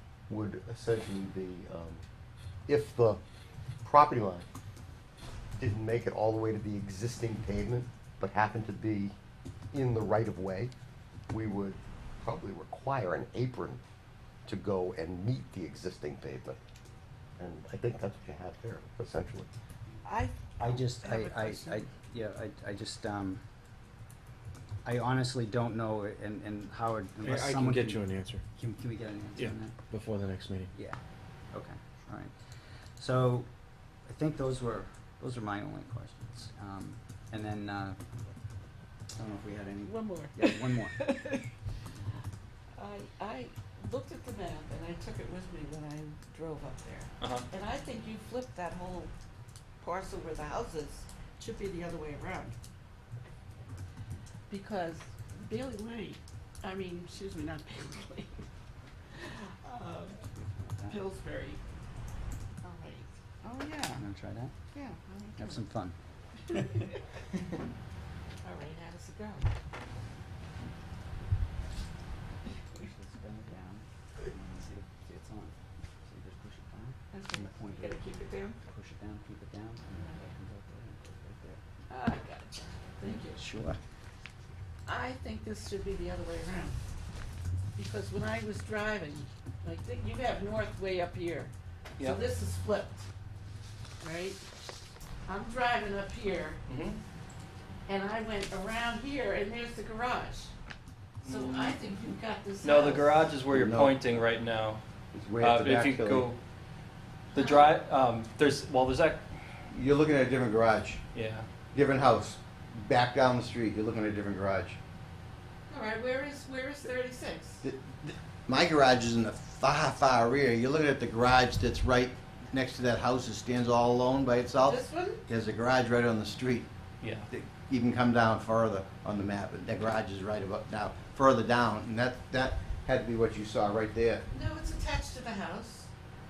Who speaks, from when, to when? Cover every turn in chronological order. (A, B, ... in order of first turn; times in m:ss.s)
0:00.3-0:02.0 A
0:02.7-0:03.2 A
0:03.8-0:04.5 A
0:05.6-0:09.2 A
0:09.7-0:10.7 A
0:11.3-0:13.8 A
0:14.5-0:16.6 A
0:17.4-0:19.5 A
0:20.0-0:21.9 B
0:20.6-0:23.4 C
0:24.8-0:29.8 C
0:27.2-0:28.4 D
0:29.4-0:30.7 D
0:30.7-0:31.0 C
0:31.5-0:32.3 C
0:33.0-0:33.5 C
0:34.1-0:38.0 C
0:39.2-0:41.1 C
0:39.8-0:41.5 B
0:42.8-0:49.1 B
0:47.2-0:47.5 E
0:49.8-0:52.6 B
0:54.5-0:58.3 B
0:59.2-1:00.3 B
1:00.6-1:01.0 C
1:00.9-1:01.6 B
1:02.6-1:04.0 B
1:04.0-1:04.6 C
1:04.7-1:05.6 B
1:05.4-1:06.0 C
1:06.5-1:07.0 B
1:08.4-1:09.4 B
1:12.7-1:18.1 C
1:17.1-1:18.6 B
1:18.6-1:21.6 C
1:21.9-1:23.4 B
1:23.1-1:23.8 C
1:24.9-1:26.8 B
1:27.8-1:33.0 B
1:32.0-1:32.3 E
1:34.0-1:34.4 B
1:35.3-1:36.6 B
1:36.7-1:37.0 E
1:37.9-1:40.5 B
1:41.2-1:41.9 E
1:41.2-1:43.3 B
1:42.6-1:44.8 E
1:43.5-1:44.2 F
1:45.1-1:46.3 F
1:45.4-1:46.4 E
1:47.3-1:49.2 E
1:47.4-1:47.8 B
1:49.7-1:51.0 F
1:51.1-1:51.5 E
1:51.7-1:54.8 F
1:55.7-1:57.6 B
1:57.6-2:06.7 F
2:04.6-2:05.2 B
2:07.0-2:07.3 E
2:07.3-2:14.2 F
2:14.3-2:15.9 B